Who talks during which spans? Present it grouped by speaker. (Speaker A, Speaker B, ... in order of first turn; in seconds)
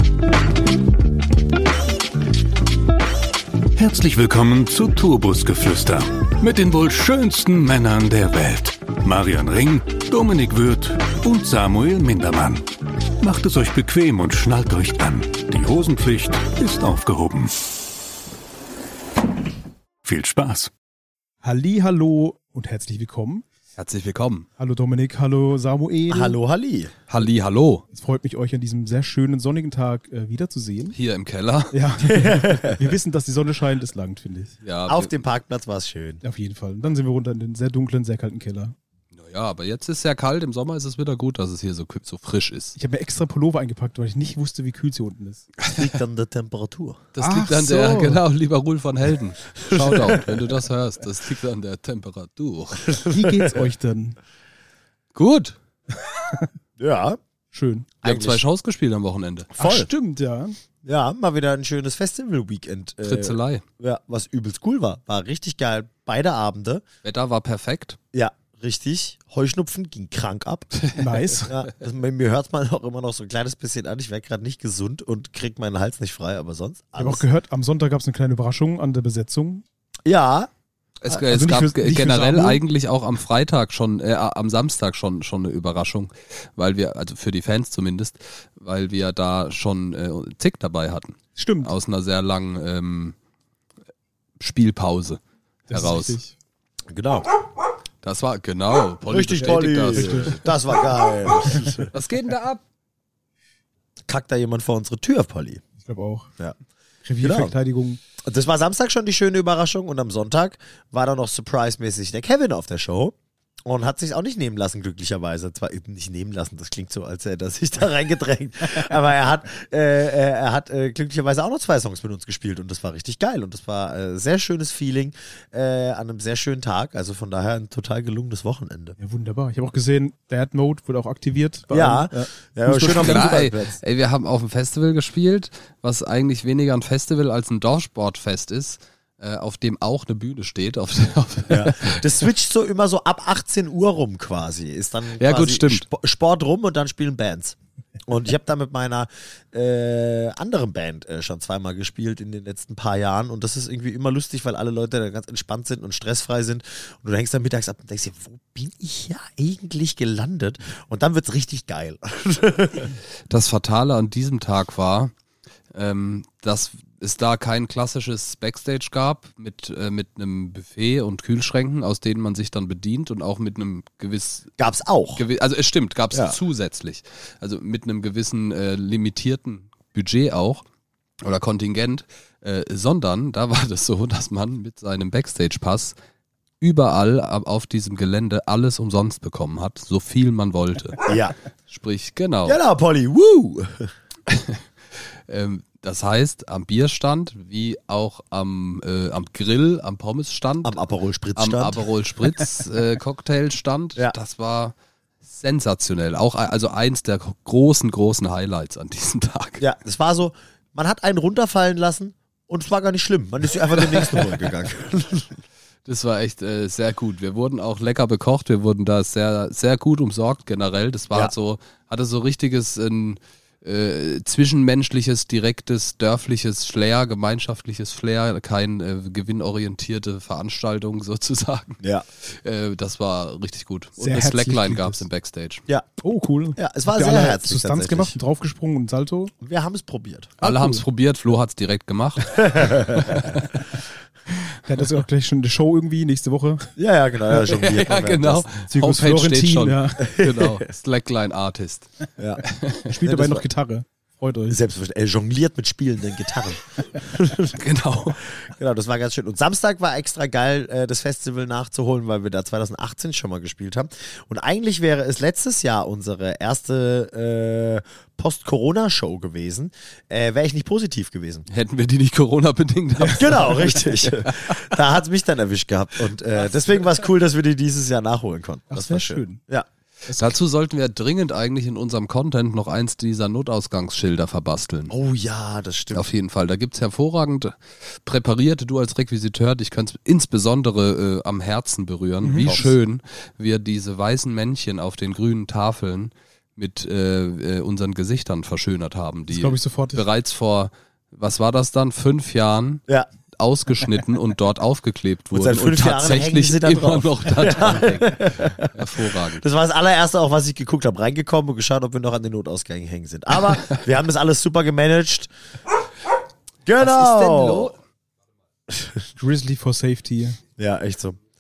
Speaker A: 3.8-12.7, 13.2-17.6, 20.0-20.7
Speaker B: 21.4-23.5, 24.6-26.4, 27.9-31.0, 31.7-34.6, 36.2-38.8, 42.8-45.5, 47.2-48.2, 53.1-54.2, 56.1-56.5, 57.5-57.9, 59.6-60.6, 71.0-71.6, 77.0-79.6, 81.1-82.6, 91.4-91.7, 95.7-96.3, 99.4-101.8, 105.8-106.3, 107.0-108.0, 129.0-133.3, 234.0-235.1, 236.0-239.3, 240.4-240.8, 243.1-243.5, 244.4-246.7, 248.7-250.1, 252.9-254.6, 278.7-279.4, 280.1-280.4, 292.2-292.7, 299.3-300.1, 319.2-320.4
Speaker C: 23.8-24.5, 27.1-27.9, 30.9-31.8, 34.6-35.2, 39.1-42.8, 47.1-52.9, 55.1-55.6, 58.0-59.5, 63.0-63.6, 67.0-68.0, 81.0-93.2, 94.4-96.2, 98.0-100.5, 101.9-102.6, 132.9-142.1, 145.2-145.9, 163.3-165.1, 165.7-174.5, 175.2-180.6, 181.2-186.0, 186.6-191.2, 191.7-192.6, 194.3-194.6, 195.3-200.8, 201.4-209.7, 215.9-235.6, 240.4-242.3, 243.1-243.4, 247.5-251.9, 252.4-252.9, 257.5-258.2, 271.5-274.8, 280.2-284.9, 285.9-302.8, 303.4-309.4, 316.8-317.8
Speaker D: 26.1-26.9, 32.0-32.8, 34.9-36.2, 45.7-47.0, 49.7-50.4, 52.9-53.5, 56.8-57.2, 58.0-58.4, 59.5-59.9, 60.8-66.8, 68.1-70.9, 71.5-77.2, 80.0-80.5, 96.9-97.3, 99.1-101.9, 104.1-105.6, 107.2-107.5, 108.2-129.0, 131.7-133.8, 141.5-162.9, 174.6-175.2, 191.0-191.4, 192.5-193.9, 200.6-201.8, 209.6-215.4, 236.6-238.2, 239.4-240.4, 242.4-243.4, 246.8-248.4, 250.1-250.7, 252.2-252.4, 253.1-253.4, 254.5-257.6, 258.3-271.5, 273.1-279.7, 284.9-286.1, 292.4-292.7, 305.3-315.3, 316.7-317.7, 318.7-319.0, 320.6-321.2